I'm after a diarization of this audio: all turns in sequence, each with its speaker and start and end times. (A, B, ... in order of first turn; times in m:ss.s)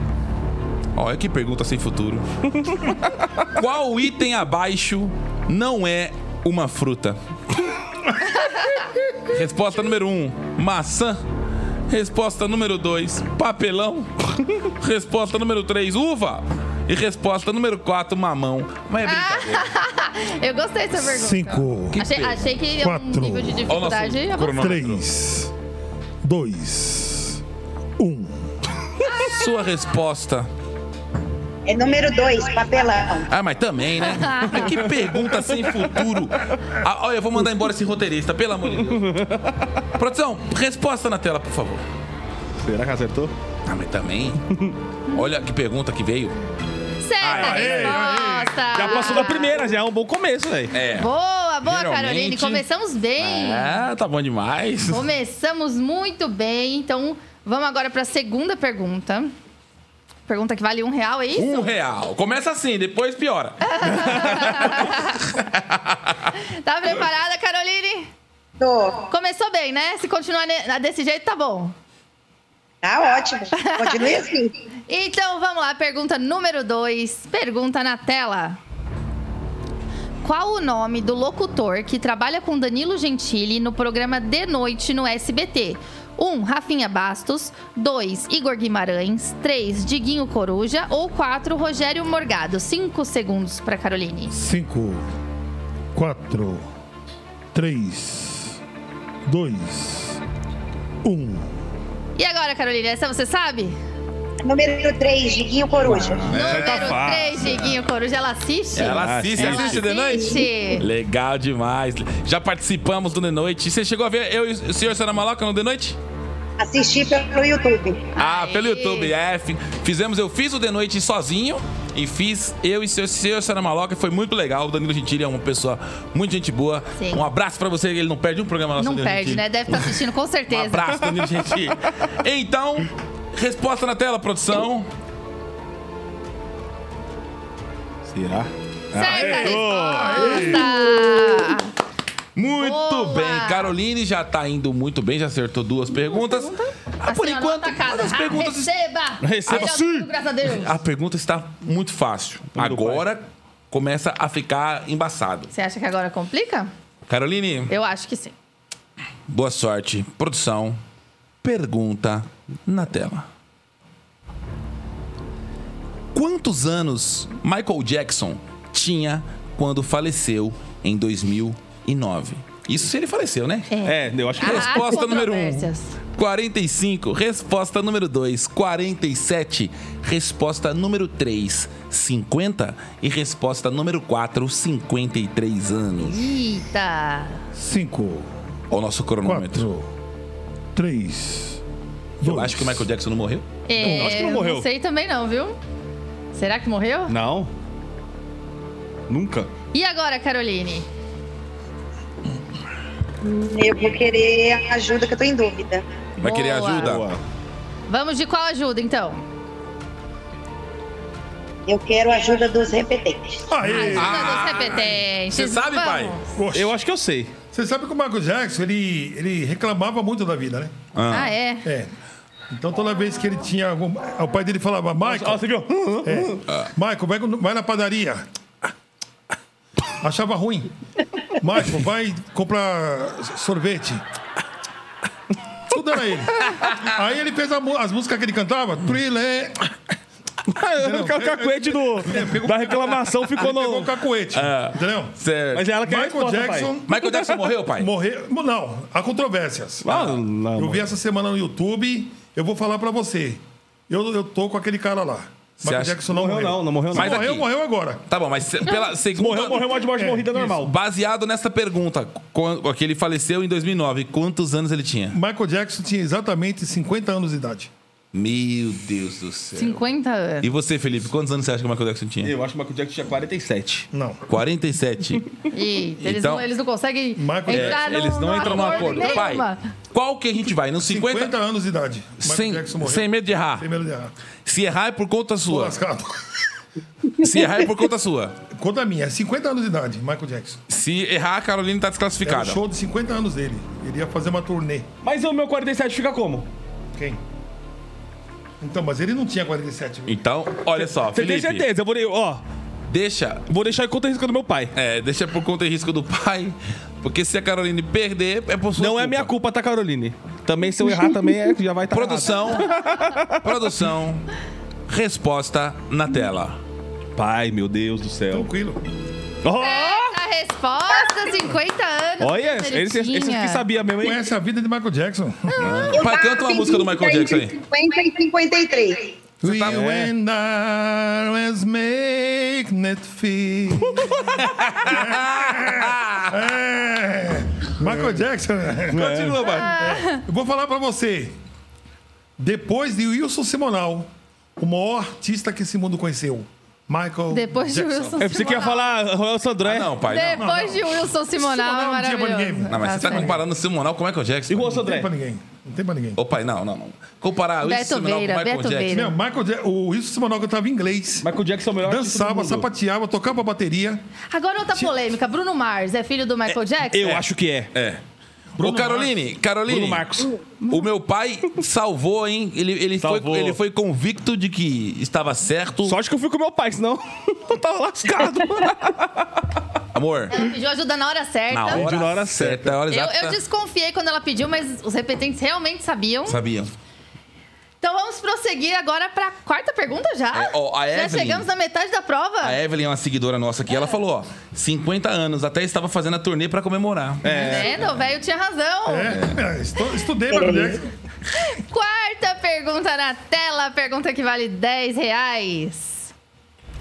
0:01.0-0:02.3 A
0:02.6-0:03.4 B
0:03.5-0:07.2 A
0:09.3-0:11.2 A
0:11.9-0:19.7 A
0:19.0-0:24.6 C
0:20.9-0:22.0 D
0:22.0-0:22.6 A
0:22.8-0:23.7 D
0:23.7-0:25.0 A
0:24.4-0:25.5 D
0:26.2-0:27.4 D
0:28.0-0:28.7 D
0:29.1-0:29.5 C
0:29.2-0:30.5 A
0:31.6-0:33.3 E
0:33.3-0:39.0 A
0:34.0-0:34.7 C
0:38.8-0:39.8 B
0:40.0-0:41.8 A
0:42.6-0:43.3 B
0:43.6-0:44.4 A
0:45.1-0:46.4 A
0:47.0-0:49.6 C
0:47.2-0:48.0 A
0:47.3-0:49.1 D
0:48.7-0:50.8 B
0:50.7-0:51.1 A
0:50.9-0:53.7 C
0:51.6-0:52.6 A
0:53.2-0:55.1 A
0:54.9-0:59.3 C
1:00.3-1:01.7 C
1:01.4-1:06.3 A
1:03.7-1:05.2 C
1:06.4-1:08.1 C
1:08.6-1:09.0 E
1:09.1-1:11.7 C
1:12.8-1:14.5 E
1:13.6-1:14.1 C
1:14.9-1:18.6 C
1:20.2-1:34.4 C
1:34.3-1:35.1 D
1:35.9-1:36.7 D
1:37.5-1:38.6 D
1:39.2-1:40.2 D
1:41.0-1:41.5 D
1:42.2-1:43.8 C
1:44.4-1:46.3 E
1:45.8-1:47.7 B
1:46.3-1:47.0 A
1:46.3-1:50.8 C
1:48.7-1:56.0 A
1:48.8-1:49.8 B
1:50.1-1:50.5 E
1:56.6-1:58.1 E
1:58.2-1:59.1 C
1:58.2-2:10.0 A
2:07.0-2:07.2 C
2:08.8-2:10.9 C
2:10.5-2:14.9 A
2:18.0-2:20.7 B
2:19.0-2:21.7 C
2:19.0-2:19.4 A
2:19.9-2:21.4 D
2:22.4-2:28.7 A
2:22.6-2:23.7 C
2:26.0-2:30.7 C
2:29.2-2:30.1 B
2:29.5-2:29.8 A
2:30.4-2:35.5 A
2:32.6-2:33.0 B
2:35.5-2:36.7 C
2:37.1-2:37.7 A
2:37.7-2:38.4 C
2:39.3-2:40.8 A
2:41.4-2:43.3 A
2:46.1-2:53.7 A
2:53.7-2:56.0 C
2:53.8-2:54.8 B
2:54.4-3:06.2 A
3:06.0-3:07.4 C
3:07.5-3:08.4 D
3:08.7-3:09.6 A
3:09.2-3:09.9 D
3:10.7-3:11.6 D
3:12.2-3:12.9 D
3:12.2-3:13.5 A
3:13.7-3:15.6 C
3:13.8-3:14.6 B
3:13.8-3:14.3 D
3:16.3-3:17.1 C
3:17.1-3:17.5 B
3:19.1-3:19.5 B
3:19.7-3:20.9 C
3:23.2-3:25.8 E
3:26.2-3:27.1 A
3:26.2-3:27.0 C
3:26.8-3:27.2 B
3:27.9-3:29.2 C
3:31.7-3:33.4 E
3:33.5-3:34.4 D
3:33.6-3:36.2 C
3:34.0-3:36.2 A
3:36.4-3:36.8 D
3:36.5-3:37.3 B
3:37.5-3:40.8 D
3:41.0-3:41.3 A
3:41.1-3:41.7 C
3:41.6-3:41.9 D
3:42.5-3:45.4 D
3:45.0-3:46.4 B
3:46.0-3:48.3 D
3:50.0-3:50.7 D
3:51.3-3:54.0 D
3:55.7-3:59.7 D
4:00.5-4:03.9 B
4:00.8-4:05.2 D
4:04.3-4:05.7 A
4:05.5-4:07.5 B
4:05.8-4:07.0 D
4:06.9-4:07.9 A
4:07.8-4:18.0 D
4:09.8-4:10.8 B
4:09.9-4:10.2 A
4:15.6-4:16.1 A
4:16.1-4:17.2 B
4:16.9-4:17.5 A
4:18.1-4:19.8 A
4:19.1-4:20.7 B
4:20.0-4:20.6 D
4:20.4-4:25.2 A
4:25.1-4:27.7 D
4:28.1-4:29.8 A
4:29.6-4:30.4 C
4:30.4-4:32.3 A
4:32.2-4:33.9 B
4:33.9-4:34.2 D
4:34.3-4:35.2 A
4:35.5-4:39.7 C
4:36.0-4:36.5 A
4:37.2-4:39.2 D
4:37.5-4:41.3 A
4:40.8-4:44.1 D
4:42.2-4:43.7 A
4:44.4-4:45.8 A
4:45.5-4:46.4 D
4:47.2-4:48.4 A
4:48.5-4:50.6 D
4:50.7-4:52.6 A
4:52.2-4:54.9 D
4:55.0-4:56.5 B
4:57.0-4:57.2 D
4:58.6-5:00.2 D
5:00.1-5:01.7 A
5:00.9-5:02.4 B
5:02.9-5:03.5 A
5:03.5-5:04.7 B
5:04.8-5:09.3 A
5:08.8-5:13.7 B
5:11.9-5:12.8 A
5:12.5-5:13.0 C
5:13.4-5:14.3 A
5:14.9-5:16.6 A
5:17.2-5:18.5 B
5:18.3-5:18.8 D
5:19.4-5:20.2 B
5:19.6-5:23.6 C
5:22.2-5:24.2 B
5:24.0-5:25.9 D
5:25.6-5:27.6 A
5:25.9-5:29.1 E
5:29.4-5:41.4 D
5:29.4-5:29.9 A
5:29.7-5:30.1 B
5:34.0-5:34.3 B
5:34.4-5:36.3 A
5:38.9-5:39.5 B
5:39.0-5:39.7 A
5:39.4-5:40.2 C
5:42.4-5:48.7 D
5:47.3-5:48.9 C
5:48.2-5:49.9 B
5:49.6-5:50.5 A
5:50.1-5:53.3 C
5:50.4-5:53.4 D
5:52.7-5:54.7 A
5:54.5-5:55.1 B
5:54.6-5:56.2 D
5:56.2-5:59.0 A
5:57.6-5:59.1 C
5:58.9-6:04.0 D
6:01.2-6:02.7 B
6:04.3-6:07.2 C
6:06.9-6:07.7 B
6:07.7-6:08.0 A
6:08.6-6:10.0 A
6:08.6-6:09.1 D
6:09.7-6:10.4 B
6:10.7-6:16.0 A
6:13.0-6:13.6 B
6:15.8-6:19.6 B
6:19.9-6:20.3 A
6:20.3-6:21.8 C
6:21.5-6:23.4 A
6:21.7-6:22.7 B
6:22.9-6:26.4 C
6:26.2-6:26.7 A
6:27.8-6:32.6 C
6:30.3-6:31.5 A
6:32.4-6:37.8 A
6:37.2-6:37.8 B
6:37.2-6:39.2 C
6:38.9-6:40.9 D
6:39.1-6:39.4 A
6:40.3-6:40.8 E
6:41.4-6:46.1 C